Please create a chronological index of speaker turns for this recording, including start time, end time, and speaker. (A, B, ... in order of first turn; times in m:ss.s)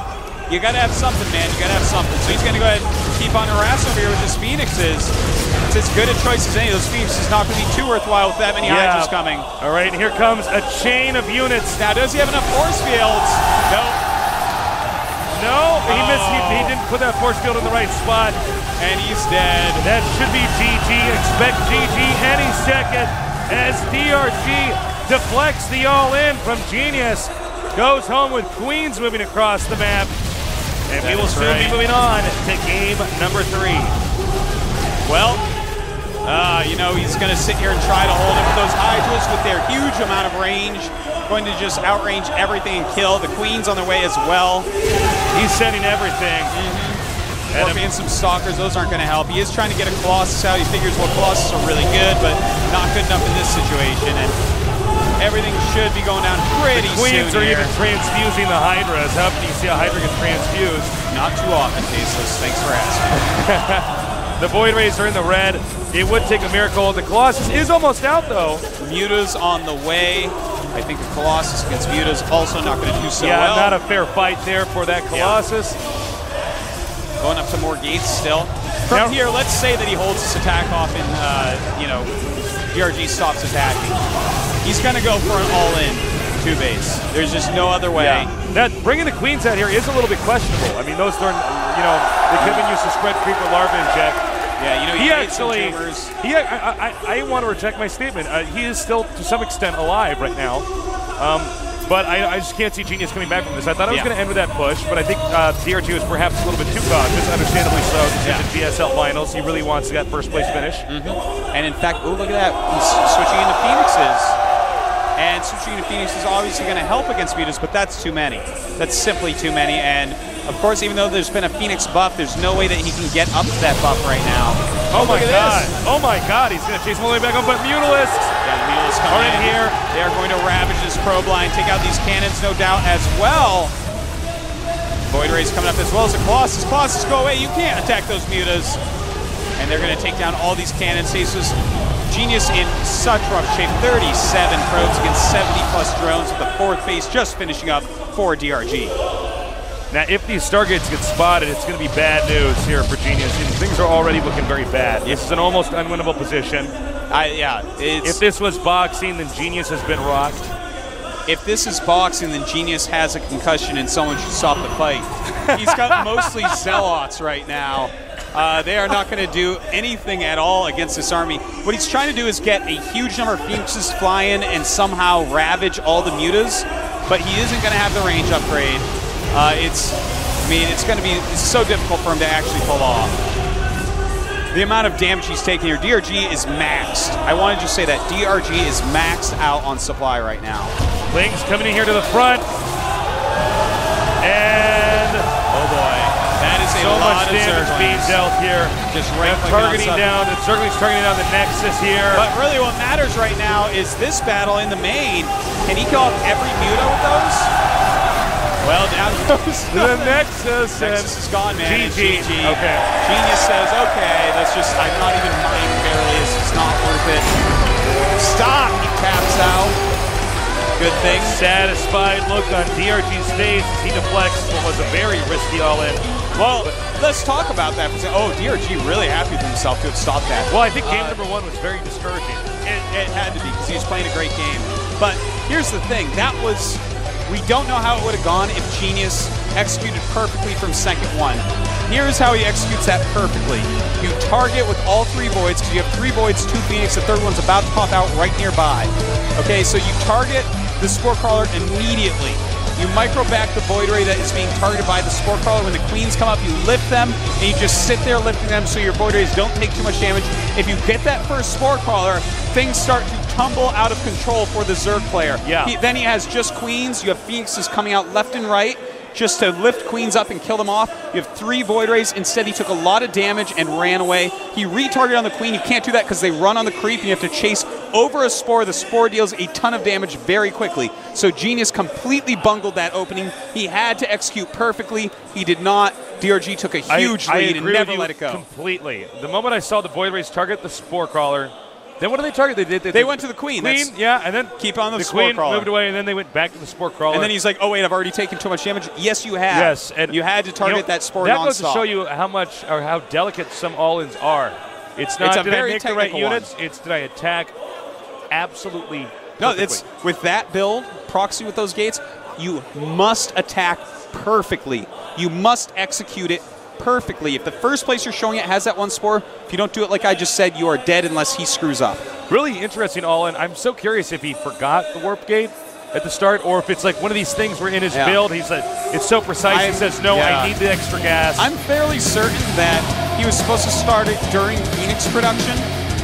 0:00.5-0:05.2 A
0:05.7-0:09.5 A
0:08.6-0:11.8 B
0:11.7-0:14.0 A
0:15.3-0:18.4 B
0:15.8-0:16.8 A
0:18.8-0:19.8 A
0:19.8-0:30.1 B
0:30.9-0:34.0 B
0:30.9-0:31.8 A
0:35.0-0:35.4 A
0:36.2-0:44.7 A
0:45.3-0:46.5 B
0:46.5-0:54.4 A
0:47.5-0:47.8 B
0:55.2-0:57.7 A
0:56.7-1:00.9 B
1:01.1-1:03.2 A
1:03.2-1:08.6 B
1:08.8-1:13.8 A
1:13.2-1:15.8 B
1:15.1-1:15.4 A
1:17.2-1:22.1 A
1:18.9-1:19.2 B
1:22.7-1:24.0 A
1:24.6-1:28.3 A
1:27.9-1:34.2 B
1:32.4-1:32.7 A
1:34.6-1:36.1 A
1:35.0-1:40.6 B
1:41.2-1:50.8 B
1:48.2-1:48.5 A
1:50.9-1:54.4 A
1:55.2-2:05.7 A
2:04.9-2:08.3 B
2:08.4-2:13.7 A
2:09.1-2:09.8 B
2:15.1-2:18.8 A
2:19.6-2:21.6 A
2:22.1-2:28.9 A
2:29.9-2:36.7 B
2:37.1-2:38.2 A
2:38.0-2:40.5 B
2:41.3-3:03.1 A
2:45.4-2:46.8 B
3:04.5-3:10.7 A
3:11.1-3:12.5 B
3:14.2-3:15.3 B
3:15.5-3:18.2 A
3:16.7-3:22.2 B
3:18.9-3:20.1 A
3:22.1-3:27.5 A
3:28.6-3:37.3 A
3:29.7-3:32.8 B
3:38.1-3:39.8 A
3:40.8-3:41.4 A
3:41.0-3:46.0 B
3:46.3-3:51.2 A
3:50.5-3:52.5 B
3:52.6-4:48.4 A
4:25.4-4:25.7 B
4:46.9-4:57.3 B
4:52.9-4:53.9 A
4:54.6-4:55.7 A
4:57.1-5:01.8 A
4:59.5-5:07.5 B
5:05.2-5:06.5 A
5:08.3-5:09.8 B
5:09.4-5:22.0 A
5:22.3-5:31.5 B
5:27.9-5:28.2 A
5:29.5-5:30.6 A
5:31.4-5:35.7 A